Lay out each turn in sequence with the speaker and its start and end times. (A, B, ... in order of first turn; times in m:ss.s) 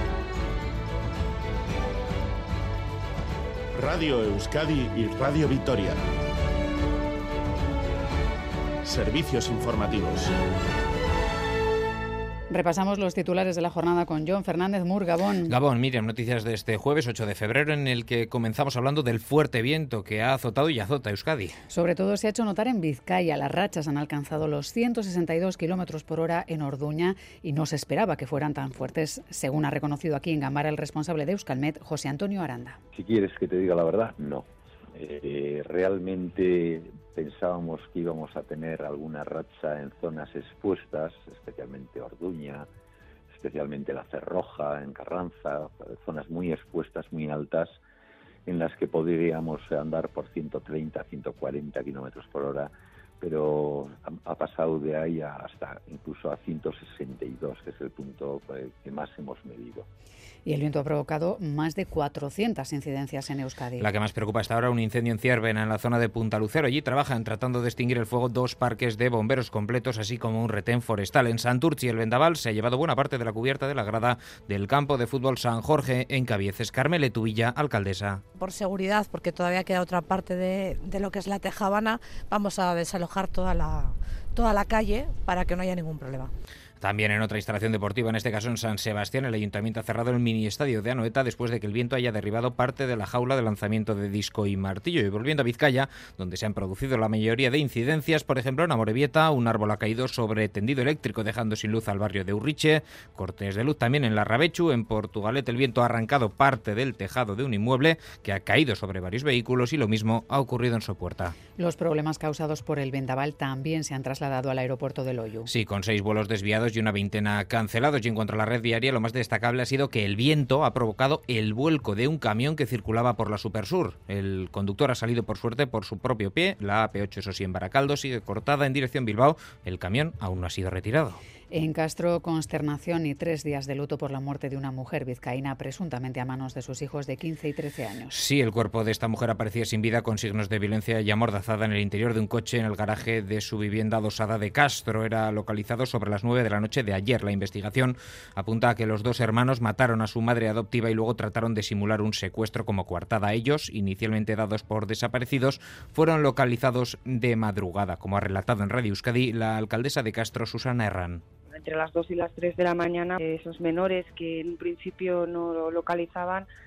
0:03.8-0:05.9 A
0:08.8-0:10.3 A
0:12.5-0:15.5 B
0:15.5-0:21.6 C
0:21.7-0:32.8 B
0:32.9-0:34.4 D
0:35.0-0:42.7 D
0:43.4-0:47.8 D
0:48.4-0:59.8 D
1:00.4-1:03.9 B
1:03.8-1:18.2 C
1:18.4-1:26.3 E
1:26.8-1:51.4 C
1:51.6-1:55.5 B
1:55.5-2:11.2 C
2:11.5-2:18.2 B
2:18.1-2:41.2 C
2:41.5-2:46.4 F